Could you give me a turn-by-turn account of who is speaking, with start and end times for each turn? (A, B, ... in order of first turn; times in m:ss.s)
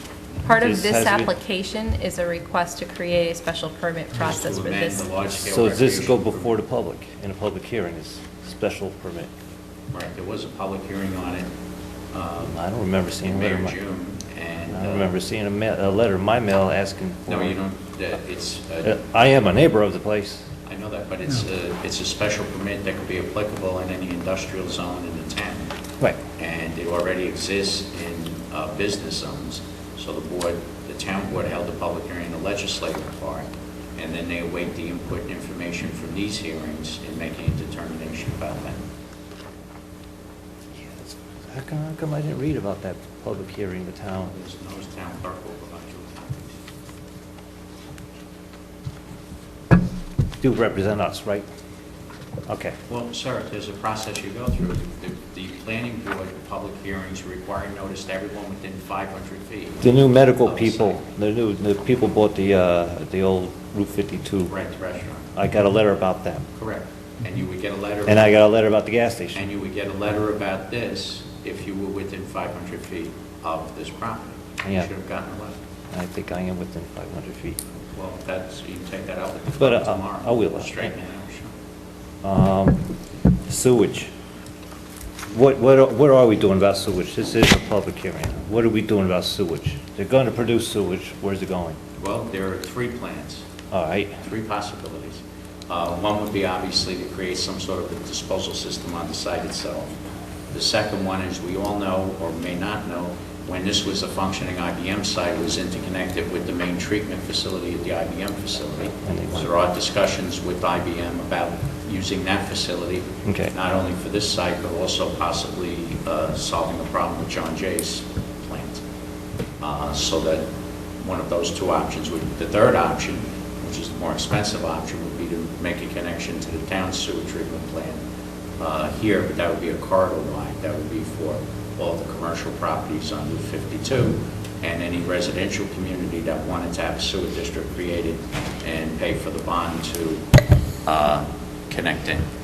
0:00.4-0:05.1 A
0:00.5-0:01.3 B
0:04.2-0:06.5 C
0:05.4-0:09.3 B
0:09.9-0:11.5 C
0:12.1-0:12.6 C
0:12.4-0:13.8 B
0:13.2-0:15.1 C
0:14.7-0:17.6 B
0:17.3-0:19.0 C
0:18.8-0:20.5 B
0:20.6-0:25.7 C
0:26.4-0:38.8 C
0:40.8-0:44.3 B
0:44.3-0:46.6 C
0:50.4-0:51.4 B
0:52.5-0:52.8 B
0:52.9-1:01.0 C
0:59.8-1:04.5 B
1:04.4-1:05.3 C
1:05.3-1:06.5 B
1:06.5-1:08.3 C
1:08.1-1:09.5 B
1:09.3-1:15.6 C
1:14.6-1:14.9 B
1:15.9-1:17.6 B
1:17.9-1:21.5 C
1:19.6-1:20.9 B
1:22.2-1:22.9 B
1:23.4-1:24.1 B
1:25.3-1:31.8 B
1:32.0-1:33.4 C
1:33.7-1:34.2 B
1:34.2-1:39.9 C
1:40.5-1:58.8 C
1:49.0-1:49.5 B
1:53.2-1:53.5 B
1:59.6-2:00.4 C
2:01.0-2:08.0 C
2:08.6-2:20.2 C
2:20.9-2:22.2 C